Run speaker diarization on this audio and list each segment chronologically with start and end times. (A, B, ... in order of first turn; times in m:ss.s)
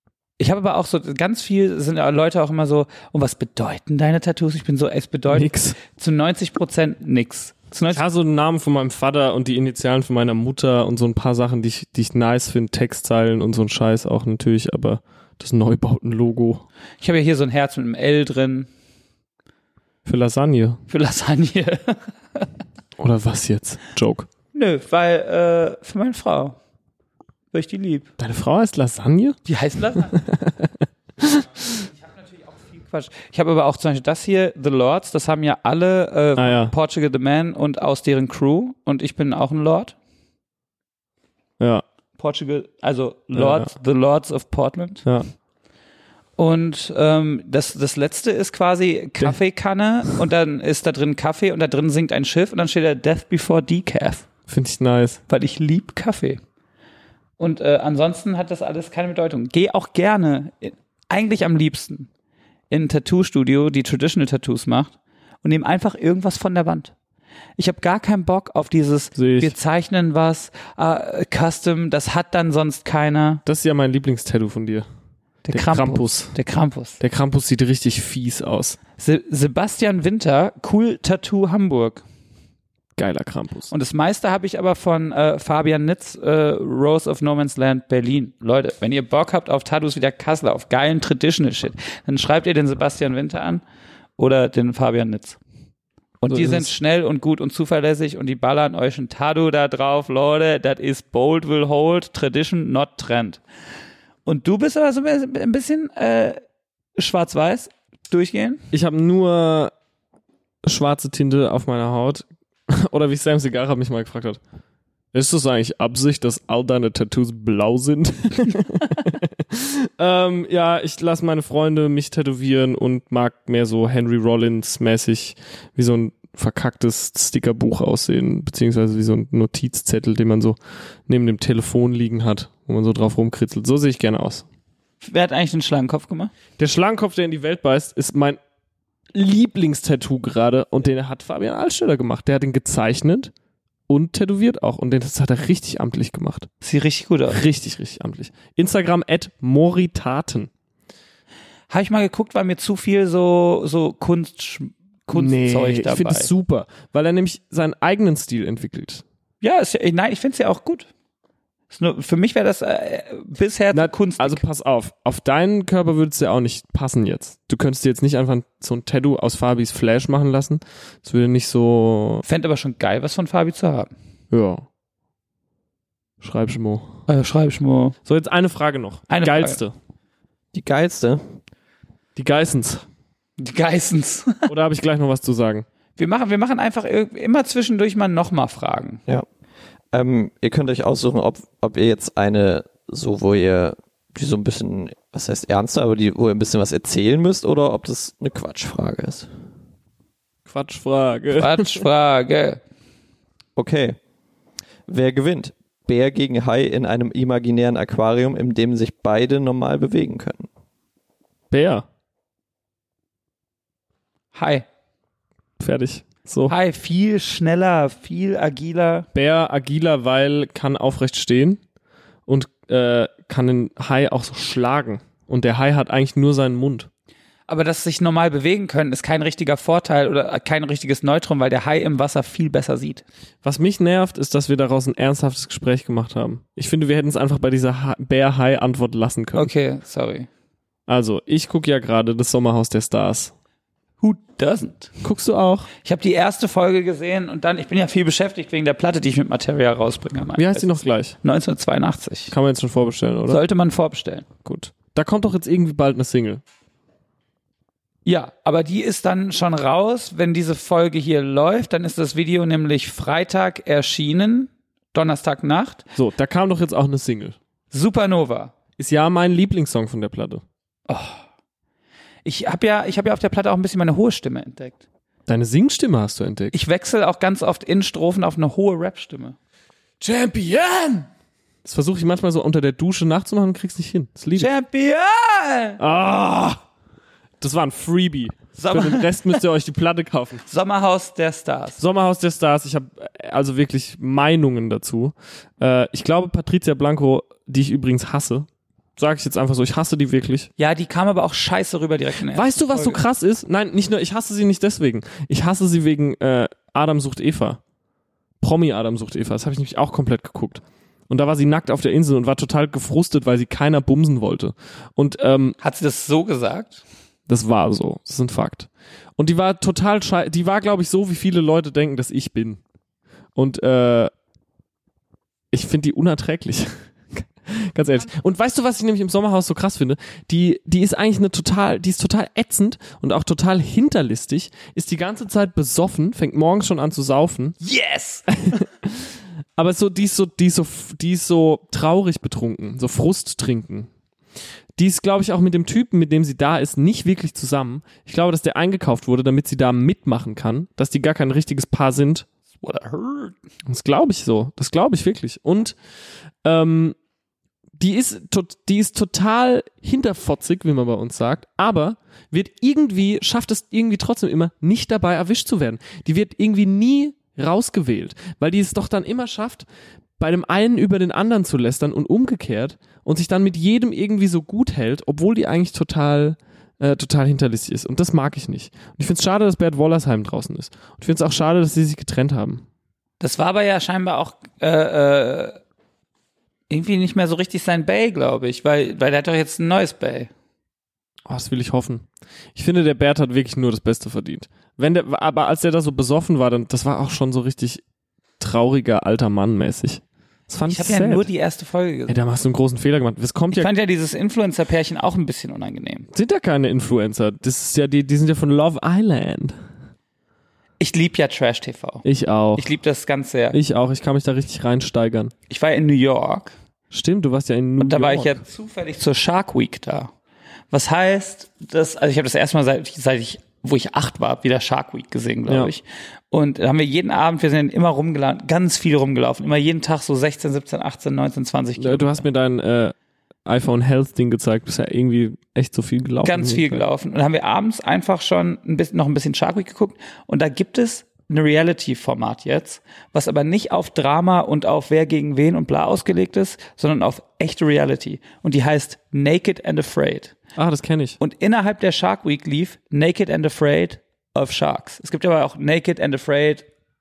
0:00.4-0:08.0 A
0:05.3-0:05.8 B
0:07.9-0:16.6 B
0:17.0-0:18.7 A
0:20.0-0:20.8 B
0:20.9-0:22.5 A
0:23.0-0:24.3 B
0:24.5-0:26.6 A
0:27.5-0:28.1 A
0:28.2-0:29.4 B
0:29.4-0:30.2 A
0:30.0-0:31.7 B
0:31.7-0:40.0 A
0:36.4-0:36.7 B
0:41.6-0:41.8 B
0:42.2-0:45.0 A
0:43.3-0:43.7 B
0:46.4-0:54.2 A
0:54.5-0:55.2 B
0:55.3-0:56.4 A
0:57.4-1:02.1 A
1:02.7-1:06.9 A
1:07.6-1:13.4 A
1:09.1-1:09.5 B
1:13.4-1:14.8 B
1:15.4-1:17.0 A
1:15.5-1:16.4 B
1:17.0-1:18.8 B
1:19.0-1:22.0 A
1:23.0-1:23.7 B
1:23.7-1:33.6 A
1:34.2-1:35.4 A
1:36.2-1:43.4 A
1:36.3-1:36.7 B
1:44.2-1:46.4 A
1:47.0-1:48.6 A
1:48.7-1:49.7 B
1:50.6-1:54.4 B
1:55.1-2:14.4 B
2:15.0-2:16.3 A
2:16.6-2:18.4 B
2:19.1-2:23.3 B
2:23.9-2:26.5 B
2:26.6-2:27.4 A
2:27.3-2:30.5 B
2:31.7-2:36.3 A
2:35.1-2:39.0 B
2:39.4-2:40.9 A
2:41.7-2:44.4 A
2:43.7-2:52.2 B
2:52.2-2:53.9 A
2:54.3-2:54.6 B
2:56.2-2:57.0 B
2:57.1-2:58.0 A
2:58.0-2:59.7 B
2:59.1-2:59.6 A
3:00.5-3:01.3 C
3:02.2-3:02.8 B
3:03.4-3:04.5 A
3:04.5-3:05.6 B
3:06.0-3:09.0 A
3:09.9-3:19.3 C
3:20.4-3:21.8 B
3:21.3-3:22.6 A
3:23.6-3:24.0 C
3:24.9-3:30.5 C
3:31.5-3:31.8 B
3:34.3-3:34.6 A
3:35.6-3:36.5 B
3:36.5-3:39.1 A
3:39.1-3:41.6 B
3:42.3-3:46.9 B
3:47.5-3:53.0 A
3:53.4-3:59.5 B
3:59.3-4:00.3 A
4:00.9-4:03.3 B
4:04.0-4:04.9 A
4:05.0-4:05.7 B
4:05.8-4:12.3 A
4:10.4-4:11.2 B
4:12.3-4:13.4 B
4:13.3-4:14.3 A
4:14.4-4:16.4 B
4:18.0-4:25.8 A
4:26.0-4:27.4 B
4:27.7-4:28.5 A
4:28.8-4:30.4 B
4:30.9-4:31.2 A
4:32.2-4:34.8 A
4:35.3-4:36.6 B
4:36.5-4:39.4 A
4:40.0-4:41.1 A
4:41.6-4:44.5 B
4:44.4-4:45.8 A
4:45.8-4:46.6 B
4:47.4-4:50.4 B
4:48.6-4:49.4 A
4:50.5-4:51.8 A
4:51.8-5:00.5 B
5:00.6-5:03.0 A
5:02.3-5:07.6 B
5:08.4-5:15.6 B
5:15.6-5:16.8 A
5:17.3-5:22.6 B
5:23.4-5:24.1 B
5:25.5-5:37.6 B
5:37.6-5:38.6 A
5:38.3-5:43.9 B
5:44.8-5:52.2 B
5:52.6-5:53.4 A
5:53.7-5:55.7 B
5:56.4-5:57.0 B
5:57.8-6:09.6 B
6:10.2-6:22.6 B
6:23.2-6:25.6 A
6:26.7-6:30.3 A
6:31.3-6:37.8 B
6:38.4-6:41.3 B
6:40.6-6:42.2 A
6:42.1-6:43.7 B
6:43.5-6:46.1 A
6:46.1-6:49.6 B
6:50.8-6:52.0 A
6:52.0-6:52.7 B
6:52.6-6:53.6 A
6:53.5-6:55.3 B
6:55.5-6:56.5 A
6:56.9-6:58.4 B
6:57.8-7:00.1 A
7:00.7-7:12.2 A
7:05.5-7:05.7 B
7:11.8-7:12.9 B
7:13.4-7:16.8 B
7:16.2-7:30.3 A
7:30.6-7:31.2 B
7:31.2-7:36.6 A